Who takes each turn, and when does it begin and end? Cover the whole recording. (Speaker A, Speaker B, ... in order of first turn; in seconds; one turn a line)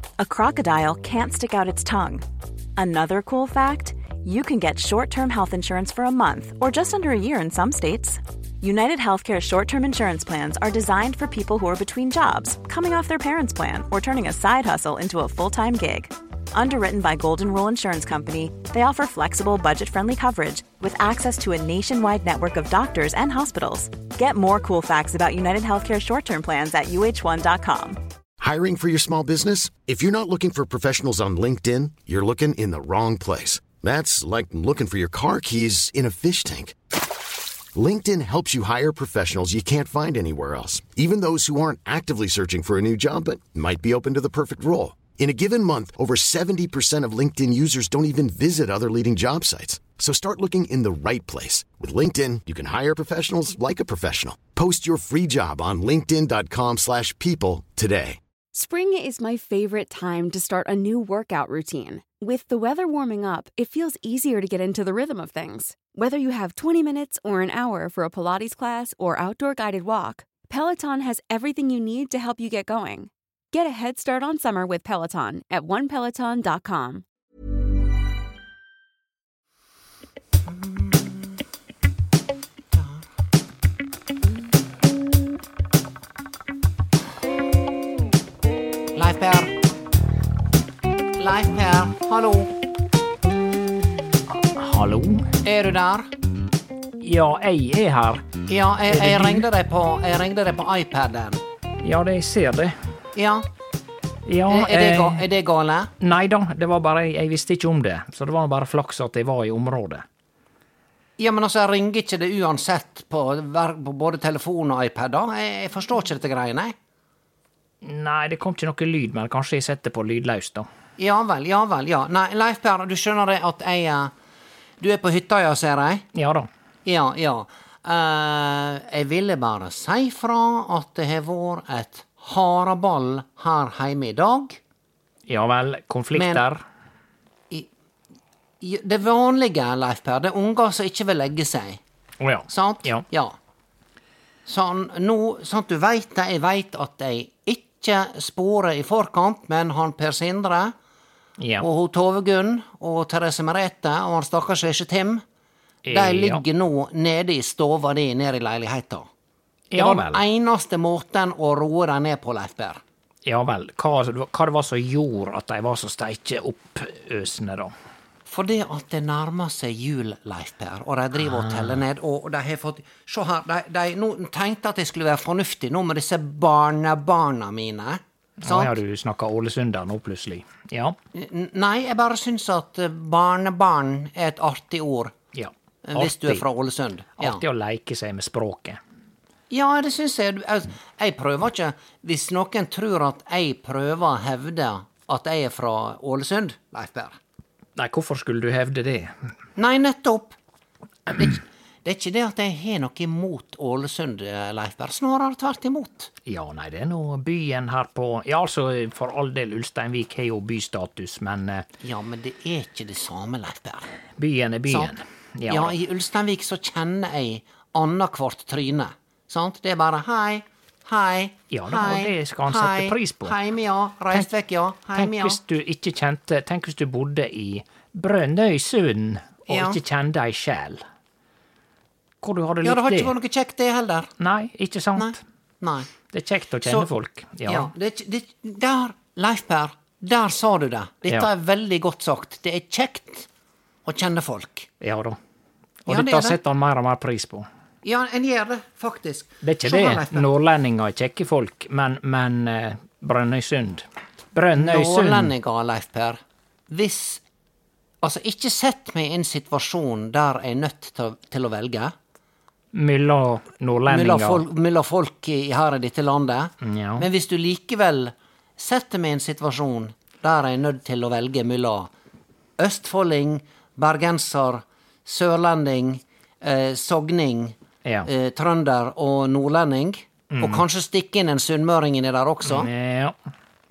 Speaker A: 0.2-2.2
Speaker A: 2.8-28.0
Speaker B: 28.4-36.8
Speaker B: 37.8-58.2
Speaker C: 58.5-77.0
Speaker D: 80.5-81.4
Speaker D: 82.7-83.0
Speaker D: 89.0-89.5
Speaker D: 91.2-92.5
Speaker E: 94.3-95.3
Speaker D: 95.4-96.1
Speaker E: 97.0-98.3
Speaker D: 98.5-101.4
Speaker E: 98.9-99.5
Speaker E: 101.8-102.8
Speaker D: 103.2-103.5
Speaker E: 104.3-105.2
Speaker D: 104.5-105.9
Speaker E: 106.0-110.0
Speaker D: 111.2-116.8
Speaker E: 117.8-120.7
Speaker D: 121.0-124.1
Speaker D: 124.8-126.1
Speaker E: 126.1-126.5
Speaker D: 126.8-134.6
Speaker E: 135.3-136.6
Speaker D: 136.1-136.4
Speaker D: 138.6-141.8
Speaker E: 142.2-143.1
Speaker D: 142.5-143.4
Speaker D: 144.5-150.7
Speaker E: 151.4-151.7
Speaker D: 151.6-155.2
Speaker E: 155.8-156.4
Speaker D: 155.9-159.1
Speaker E: 159.7-160.2
Speaker D: 159.8-162.8
Speaker E: 163.2-167.7
Speaker D: 168.3-178.7
Speaker E: 171.3-171.8
Speaker E: 178.4-181.0
Speaker D: 181.1-185.1
Speaker E: 185.3-186.4
Speaker D: 185.8-187.4
Speaker E: 187.2-188.8
Speaker D: 189.5-197.2
Speaker E: 197.8-199.1
Speaker D: 199.6-200.4
Speaker D: 201.2-206.1
Speaker E: 206.3-211.7
Speaker D: 211.8-213.9
Speaker E: 214.2-215.8
Speaker D: 215.5-225.4
Speaker E: 221.5-223.3
Speaker E: 224.9-230.8
Speaker D: 229.5-229.8
Speaker E: 232.2-233.1
Speaker D: 232.6-234.1
Speaker E: 234.2-235.2
Speaker D: 235.0-235.9
Speaker E: 236.1-237.7
Speaker D: 236.6-236.9
Speaker D: 237.5-243.3
Speaker D: 243.9-244.7
Speaker E: 244.8-245.2
Speaker E: 245.8-247.5
Speaker D: 245.9-246.4
Speaker D: 247.8-250.3
Speaker E: 249.4-255.3
Speaker D: 254.6-257.2
Speaker D: 258.0-261.9
Speaker E: 262.7-264.4
Speaker D: 263.9-271.9
Speaker E: 266.6-267.1
Speaker D: 272.6-282.7
Speaker E: 280.3-280.6
Speaker E: 282.5-283.2